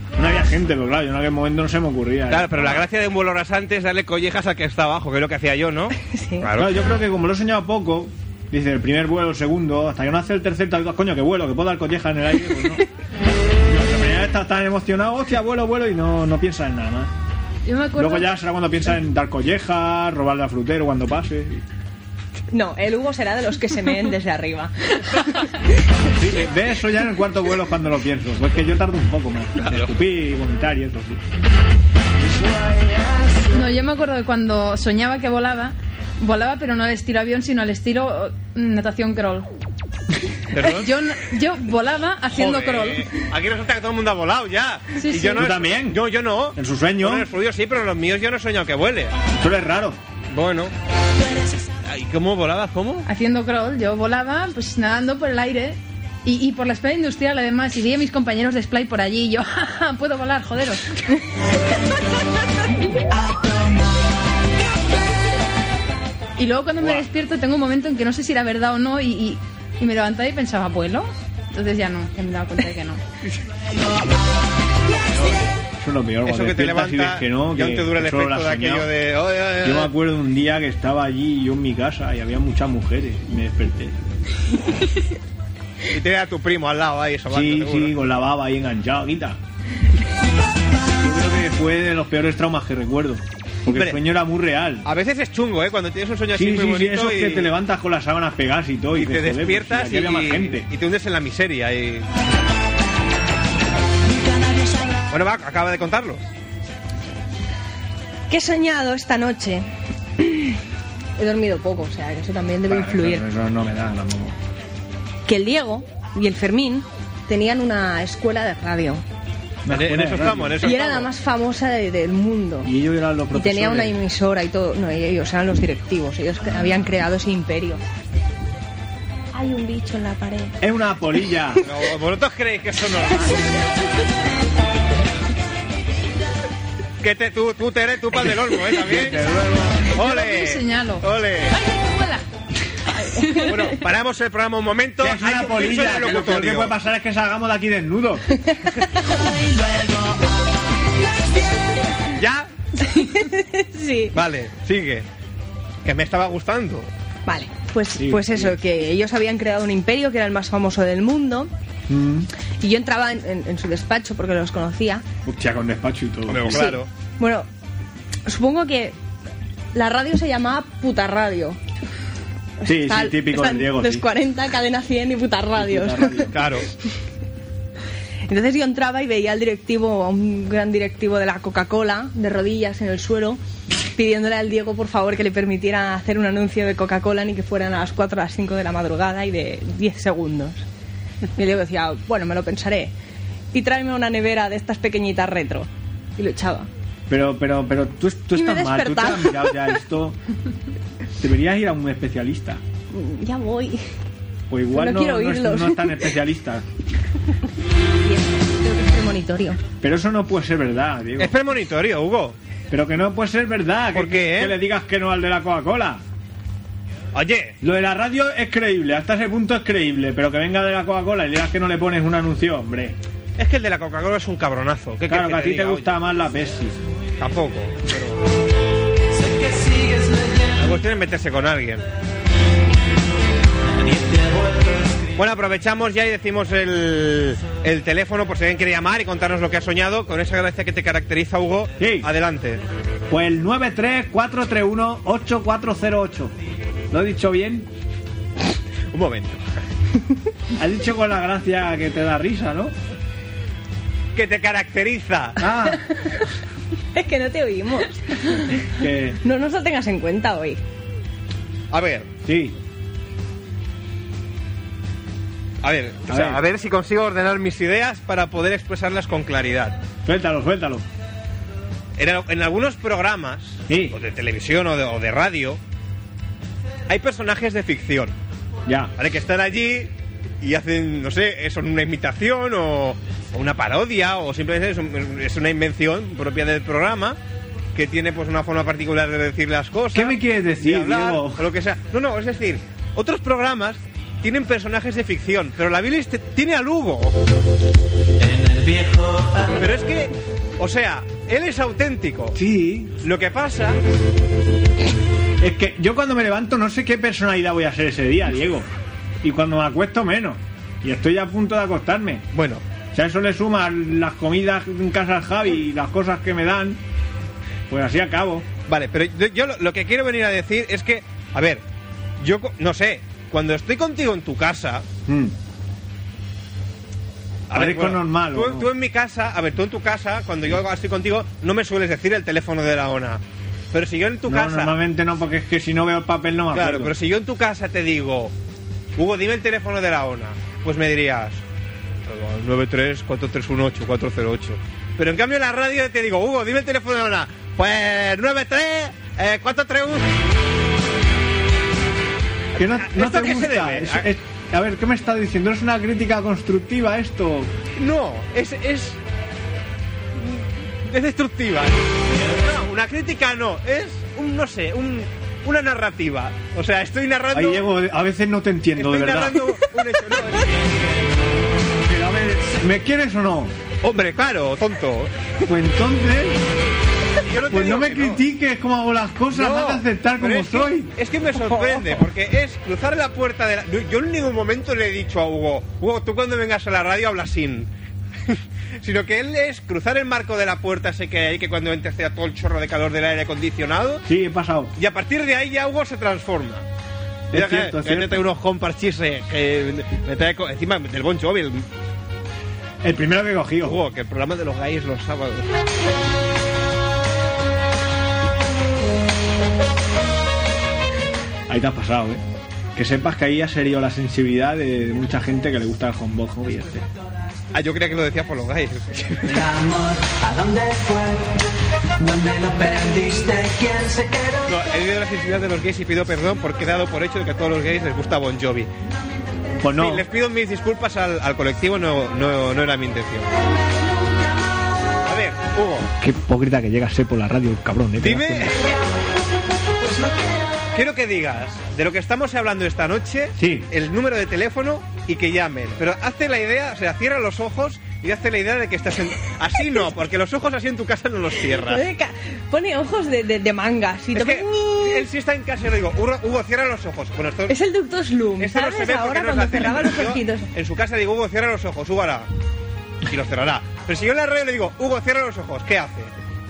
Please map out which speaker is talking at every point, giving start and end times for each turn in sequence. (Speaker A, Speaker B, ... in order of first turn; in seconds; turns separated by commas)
Speaker A: 0.2-2.8, Speaker B: 2.3-6.8, Speaker C: 6.0-6.5, Speaker A: 6.5-12.8, Speaker A: 13.7-17.1, Speaker D: 17.6-18.3, Speaker A: 17.9-21.6, Speaker C: 22.5-25.5, Speaker A: 26.1-31.2, Speaker B: 29.6-29.9, Speaker D: 33.5-39.5, Speaker B: 40.5-40.9, Speaker D: 40.6-43.1, Speaker B: 42.3-49.1, Speaker D: 45.0-45.4, Speaker A: 45.3-46.0, Speaker A: 46.5-47.3, Speaker A: 49.4-50.0, Speaker B: 50.3-50.7, Speaker B: 51.8-53.0, Speaker D: 53.0-60.9, Speaker D: 66.4-73.0, Speaker B: 66.8-67.0, Speaker B: 75.1-75.5, Speaker A: 75.8-78.9, Speaker B: 76.2-79.9, Speaker A: 79.6-84.0, Speaker B: 85.9-87.9, Speaker A: 87.3-89.4, Speaker A: 91.0-94.9, Speaker B: 93.7-94.0, Speaker B: 94.8-97.5, Speaker A: 96.3-100.7, Speaker B: 98.9-102.1, Speaker E: 104.1-104.8, Speaker B: 105.1-106.2, Speaker C: 108.3-109.7, Speaker C: 110.2-110.6, Speaker C: 111.2-113.2, Speaker A: 112.7-114.3, Speaker C: 115.2-119.0, Speaker A: 119.6-120.6, Speaker B: 119.7-121.1, Speaker C: 120.6-122.7, Speaker A: 122.6-124.0, Speaker C: 123.3-127.8, Speaker C: 129.3-130.6, Speaker A: 130.6-131.6, Speaker B: 131.6-133.7, Speaker B: 137.0-139.2, Speaker A: 138.7-139.9, Speaker B: 139.9-141.6, Speaker D: 139.9-142.2, Speaker C: 143.0-143.5, Speaker D: 143.1-143.6, Speaker B: 143.4-146.7, Speaker A: 145.0-148.4, Speaker C: 148.4-149.1, Speaker B: 152.1-152.5, Speaker C: 152.8-154.1, Speaker B: 154.1-155.1, Speaker B: 155.8-156.9, Speaker C: 157.3-161.5, Speaker A: 157.9-158.6, Speaker A: 161.9-162.3, Speaker C: 162.6-165.0, Speaker A: 165.2-166.7, Speaker B: 166.3-166.9, Speaker C: 166.5-167.5, Speaker C: 168.2-168.9, Speaker C: 169.7-171.6, Speaker C: 172.6-176.3, Speaker A: 172.6-174.1, Speaker A: 175.6-176.4, Speaker B: 176.3-176.7, Speaker C: 178.3-183.4, Speaker C: 183.9-190.7, Speaker C: 191.3-192.9, Speaker C: 193.5-196.7, Speaker A: 197.1-200.2, Speaker C: 198.3-199.7, Speaker A: 201.2-202.6, Speaker C: 202.9-203.8, Speaker A: 204.5-206.7, Speaker C: 204.7-206.1, Speaker C: 208.0-209.6, Speaker A: 209.8-211.3, Speaker B: 211.2-212.3, Speaker A: 212.7-216.0, Speaker B: 213.9-214.6, Speaker B: 217.1-217.6, Speaker A: 217.6-222.9, Speaker B: 223.4-225.9, Speaker A: 225.1-226.8, Speaker B: 227.2-228.2, Speaker E: 229.3-230.4, Speaker B: 230.5-231.9, Speaker B: 235.2-242.6, Speaker A: 241.8-242.1, Speaker A: 243.1-246.3, Speaker A: 246.9-247.7, Speaker B: 248.9-249.4, Speaker A: 250.6-252.7, Speaker B: 254.1-255.4, Speaker A: 255.4-255.8, Speaker C: 256.9-258.6, Speaker A: 258.6-259.2, Speaker C: 259.2-260.6, Speaker B: 261.7-262.1, Speaker A: 262.2-262.6, Speaker B: 265.6-269.8, Speaker A: 266.1-266.4, Speaker A: 270.0-270.8, Speaker B: 272.0-275.6, Speaker A: 273.7-273.9, Speaker B: 276.9-278.1, Speaker A: 278.7-278.9, Speaker B: 279.0-287.2, Speaker B: 287.7-297.1, Speaker A: 289.9-291.5, Speaker E: 298.3-299.4, Speaker B: 299.5-302.4, Speaker A: 302.3-302.9, Speaker B: 303.0-303.8, Speaker A: 305.4-308.7, Speaker A: 309.2-312.2, Speaker B: 312.3-312.6, Speaker A: 312.9-316.8, Speaker A: 317.7-318.5, Speaker B: 318.7-321.6, Speaker B: 322.2-324.8, Speaker A: 325.1-325.3, Speaker B: 327.5-334.8, Speaker A: 327.5-328.7, Speaker A: 334.3-336.9, Speaker B: 336.5-338.3, Speaker B: 338.9-341.4, Speaker B: 342.0-350.1, Speaker A: 352.6-357.5, Speaker B: 352.6-354.1, Speaker B: 357.8-359.0, Speaker B: 360.1-367.6, Speaker A: 367.3-369.6, Speaker B: 368.8-370.7, Speaker A: 371.8-373.5, Speaker B: 373.8-375.1, Speaker A: 375.4-376.4, Speaker B: 377.2-378.2, Speaker A: 377.5-380.9, Speaker B: 379.3-387.7, Speaker B: 388.3-394.0, Speaker A: 394.0-394.7, Speaker B: 394.8-396.6, Speaker A: 397.3-398.2, Speaker B: 397.3-401.6, Speaker A: 402.8-403.8, Speaker B: 403.6-405.6, Speaker A: 411.5-412.2, Speaker A: 412.7-416.9, Speaker B: 417.5-419.4, Speaker E: 419.3-421.4, Speaker E: 422.0-424.5, Speaker B: 424.4-428.7, Speaker A: 429.6-430.1, Speaker B: 429.7-433.3, Speaker B: 435.0-435.9, Speaker A: 436.0-438.6, Speaker B: 438.0-438.7, Speaker E: 439.9-440.2, Speaker B: 440.7-451.8, Speaker A: 443.4-443.7, Speaker C: 451.4-455.0, Speaker B: 454.1-457.6, Speaker C: 457.5-460.5, Speaker B: 458.4-462.3, Speaker B: 463.0-466.1